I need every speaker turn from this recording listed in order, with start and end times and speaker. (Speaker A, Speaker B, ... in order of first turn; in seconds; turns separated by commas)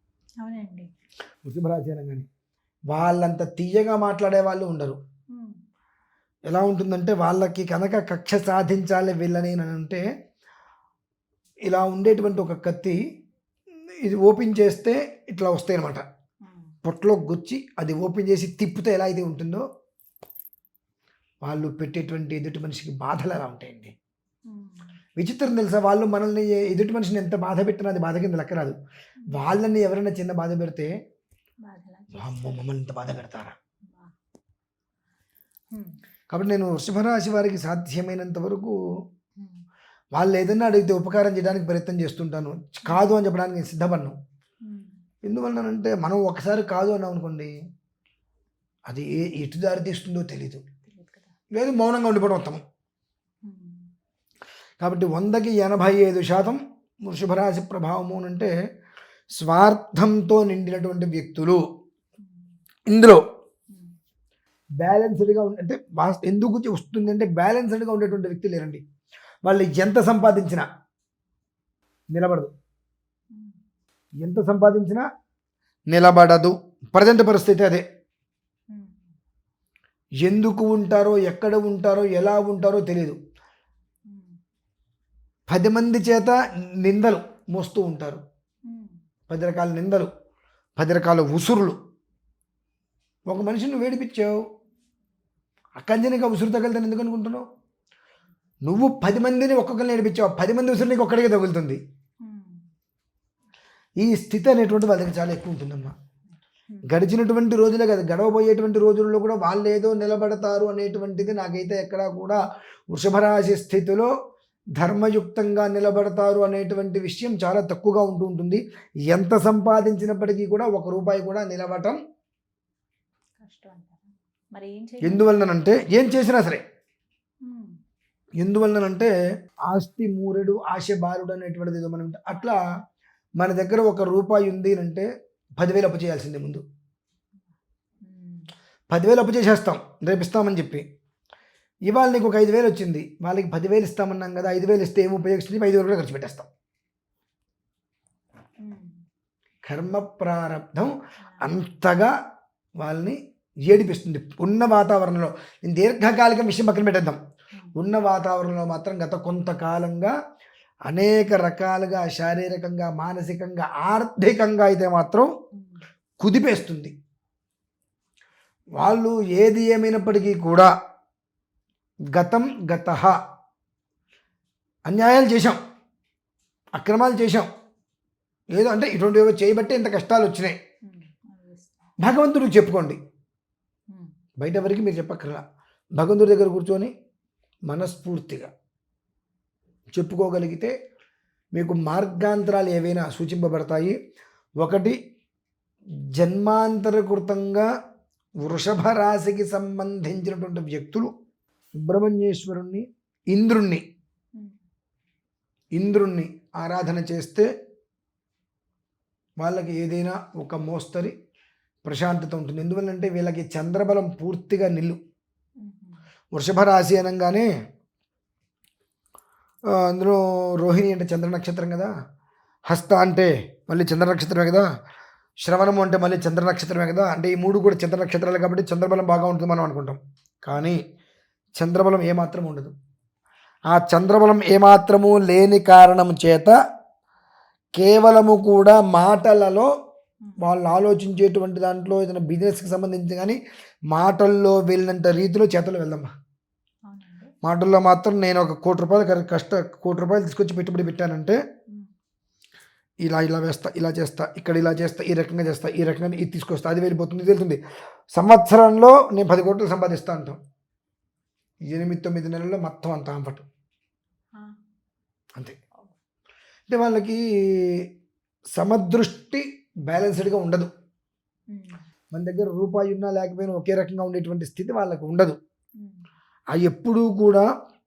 Speaker A: 0.4-0.9, Speaker B: 1.4-2.3, Speaker B: 2.9-5.0, Speaker A: 5.3-5.6, Speaker B: 6.5-10.0, Speaker B: 11.7-13.0, Speaker B: 14.0-16.0, Speaker A: 16.4-16.7, Speaker B: 16.8-19.6, Speaker B: 21.4-23.9, Speaker A: 24.5-25.0, Speaker B: 25.2-28.8, Speaker B: 29.3-30.9, Speaker A: 31.6-32.6, Speaker B: 32.1-33.6, Speaker A: 33.9-34.1, Speaker A: 35.7-36.0, Speaker B: 36.3-38.7, Speaker A: 39.4-39.6, Speaker B: 40.1-44.2, Speaker A: 42.9-43.1, Speaker A: 44.6-45.0, Speaker B: 45.2-47.5, Speaker B: 48.9-50.6, Speaker A: 50.9-51.3, Speaker B: 51.5-52.6, Speaker A: 53.4-53.9, Speaker B: 54.8-58.5, Speaker B: 59.4-61.6, Speaker A: 62.2-62.5, Speaker B: 62.9-63.2, Speaker B: 64.8-68.8, Speaker B: 69.5-70.7, Speaker B: 72.1-72.5, Speaker A: 73.3-73.6, Speaker B: 74.2-75.1, Speaker B: 75.9-77.8, Speaker A: 78.7-79.1, Speaker B: 80.2-83.2, Speaker A: 84.1-84.4, Speaker B: 85.5-88.2, Speaker A: 88.7-89.0, Speaker B: 89.3-90.1, Speaker B: 90.8-91.8, Speaker B: 93.3-94.4, Speaker B: 95.8-97.5, Speaker B: 98.7-101.8, Speaker A: 102.2-102.6, Speaker B: 104.0-105.9, Speaker B: 106.9-114.1, Speaker B: 114.8-122.0, Speaker A: 123.4-125.3, Speaker B: 125.0-126.6, Speaker A: 127.4-127.8, Speaker B: 128.4-129.1, Speaker B: 129.7-132.6, Speaker B: 133.4-135.1, Speaker B: 135.6-136.6, Speaker A: 138.0-138.5, Speaker B: 138.9-140.8, Speaker B: 141.9-146.5, Speaker A: 148.6-149.0, Speaker B: 149.7-152.1, Speaker A: 151.2-151.5, Speaker B: 152.8-157.2, Speaker B: 157.8-160.1, Speaker B: 160.9-165.3, Speaker A: 165.6-165.8, Speaker B: 166.2-166.9, Speaker B: 168.8-170.7, Speaker B: 172.1-173.2, Speaker B: 174.9-175.6, Speaker B: 176.8-177.5, Speaker B: 178.6-180.6, Speaker A: 180.8-181.9, Speaker B: 182.0-183.0, Speaker B: 184.4-185.4, Speaker B: 186.0-186.9, Speaker B: 187.7-188.5, Speaker B: 189.9-190.7, Speaker B: 191.6-193.9, Speaker B: 194.6-195.0, Speaker B: 196.2-197.7, Speaker B: 198.4-201.1, Speaker B: 201.8-203.8, Speaker B: 205.8-207.5, Speaker B: 209.4-211.1, Speaker B: 211.8-215.0, Speaker A: 215.6-216.0, Speaker B: 216.3-217.5, Speaker B: 219.7-221.9, Speaker B: 222.7-224.7, Speaker B: 225.4-230.8, Speaker B: 231.6-232.7, Speaker B: 233.7-236.5, Speaker B: 237.8-239.7, Speaker B: 240.4-243.4, Speaker B: 243.9-246.1, Speaker A: 246.9-247.3, Speaker B: 247.4-251.4, Speaker B: 253.0-257.6, Speaker B: 258.1-260.4, Speaker B: 261.7-263.5, Speaker B: 266.7-267.8, Speaker B: 268.6-270.7, Speaker A: 271.5-271.8, Speaker B: 272.1-275.4, Speaker B: 276.5-277.5